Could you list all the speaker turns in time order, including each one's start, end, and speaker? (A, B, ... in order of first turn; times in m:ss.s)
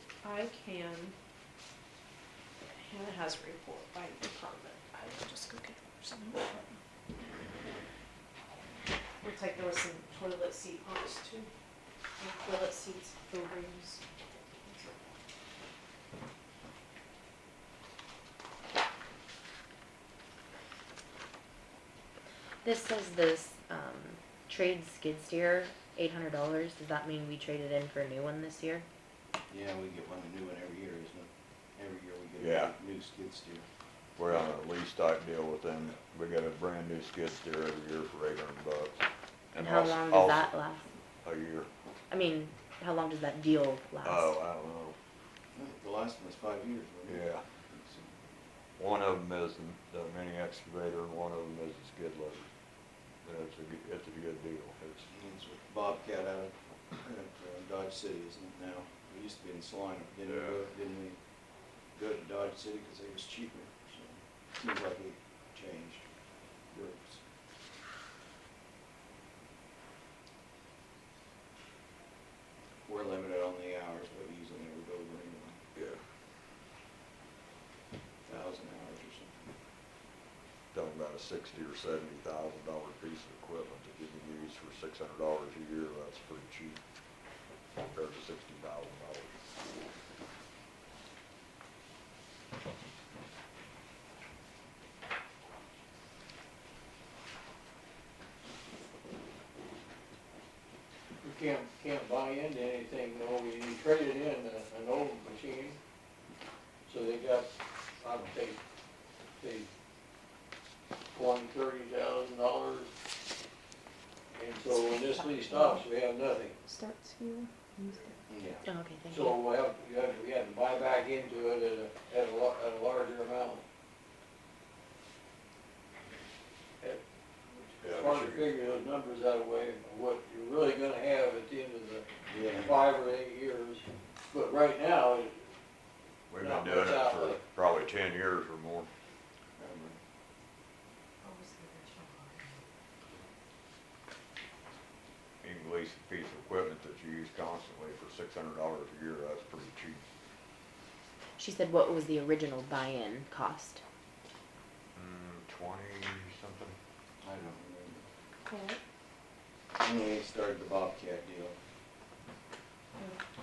0:00.2-0:01.1 A
0:02.7-0:06.8 A
0:09.2-0:11.5 A
0:12.2-0:14.0 A
0:14.6-0:14.9 A
0:22.6-0:28.8 B
0:29.5-0:33.6 C
0:32.4-0:32.7 D
0:34.2-0:39.0 D
0:39.5-0:40.5 D
0:39.6-0:40.9 B
0:41.2-0:41.7 D
0:42.1-0:44.4 B
0:44.0-0:45.0 D
0:45.6-0:48.2 C
0:47.0-0:47.4 D
0:48.8-0:52.5 D
0:53.2-0:55.1 D
0:55.1-1:01.2 C
1:00.2-1:00.6 D
1:01.9-1:06.0 C
1:06.7-1:07.2 C
1:12.8-1:15.6 C
1:18.2-1:19.5 C
1:20.7-1:26.8 D
1:27.7-1:29.3 D
1:41.2-1:45.8 E
1:46.8-1:48.6 E
1:49.4-1:49.7 E
1:51.1-1:52.9 E
1:54.3-1:56.6 E
1:54.7-1:55.8 A
1:56.6-1:58.2 A
1:58.3-1:58.6 C
1:58.6-1:59.4 B
1:59.1-2:03.6 E
2:06.8-2:15.5 E
2:07.8-2:08.5 D
2:12.3-2:12.8 C
2:16.3-2:18.9 D
2:16.4-2:17.4 E
2:19.6-2:20.0 C
2:21.2-2:22.6 A
2:25.4-2:30.0 D
2:31.4-2:33.8 B
2:34.9-2:36.8 D
2:37.2-2:38.0 C
2:38.4-2:38.8 A
2:39.8-2:41.6 C